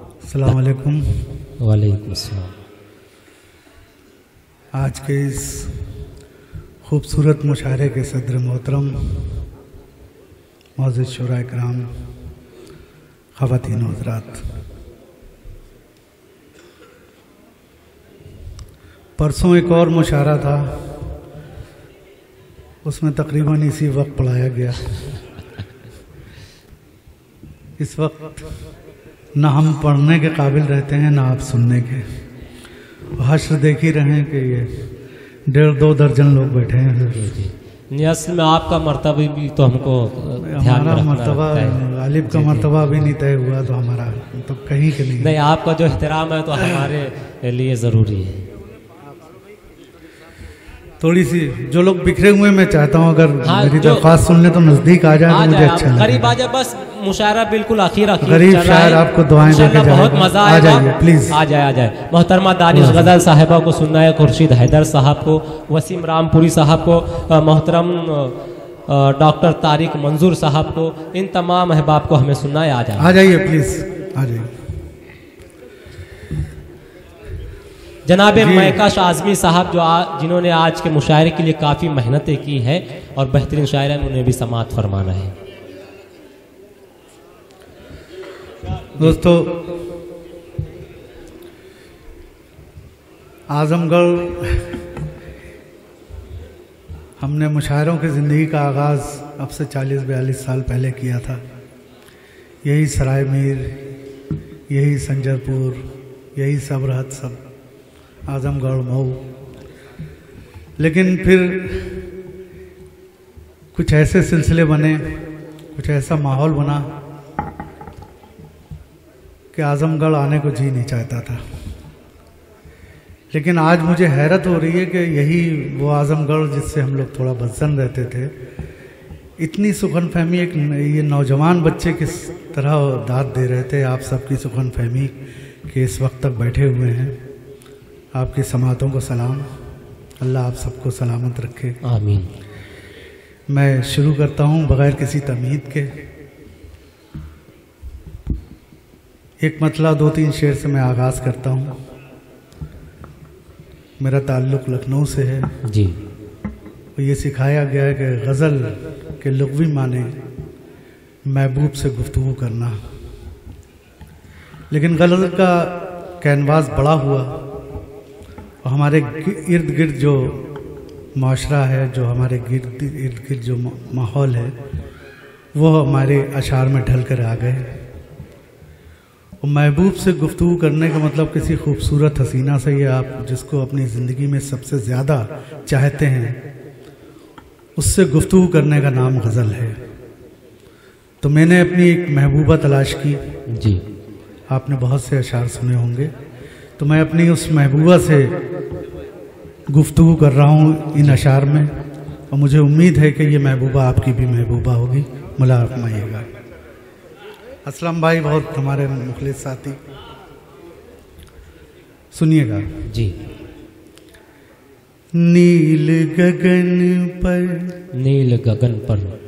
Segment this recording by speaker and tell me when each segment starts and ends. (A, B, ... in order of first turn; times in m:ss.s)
0:00.3-0:01.2 A
0:01.6-0:02.5 B
0:04.8-0:05.8 A
0:06.8-0:09.3 A
0:10.8-0:11.9 A
0:13.4-0:14.4 A
0:19.2-0:20.8 A
0:22.8-0:24.8 A
0:27.8-0:28.5 A
0:29.4-0:32.1 A
0:33.2-0:34.9 A
0:35.5-0:37.4 A
0:37.1-0:43.1 B
0:40.4-0:45.4 A
0:45.2-0:48.5 B
0:46.6-0:46.9 A
0:51.0-0:56.4 A
0:53.4-0:54.1 B
0:55.3-1:13.2 B
0:58.2-1:01.4 A
1:02.7-1:03.1 A
1:13.0-1:14.5 A
1:18.1-1:25.3 B
1:18.4-1:18.8 A
1:29.0-1:29.6 A
1:33.5-1:34.8 A
1:37.2-1:41.4 A
1:42.6-1:43.8 A
1:44.7-1:47.4 A
1:48.3-1:49.3 A
1:50.8-1:52.1 A
1:53.7-1:55.2 A
1:55.8-1:56.9 A
1:59.5-2:01.4 A
2:03.3-2:08.4 A
2:09.4-2:17.2 A
2:18.1-2:19.5 A
2:20.2-2:21.8 A
2:21.8-2:22.3 B
2:23.5-2:26.0 A
2:29.4-2:31.8 A
2:34.0-2:35.5 A
2:35.6-2:36.0 B
2:37.0-2:40.2 A
2:41.3-2:42.8 A
2:44.7-2:47.4 A
2:48.6-2:50.5 A
2:51.2-2:54.6 A
2:55.5-2:57.8 A
2:59.4-3:06.4 A
3:07.8-3:09.8 A
3:11.2-3:13.2 A
3:13.5-3:13.8 B
3:14.5-3:16.1 A
3:16.8-3:18.4 A
3:19.7-3:21.7 A
3:22.3-3:26.3 A
3:27.6-3:29.8 A
3:32.1-3:32.7 A
3:32.9-3:33.2 B
3:35.1-3:37.7 A
3:38.0-3:39.2 B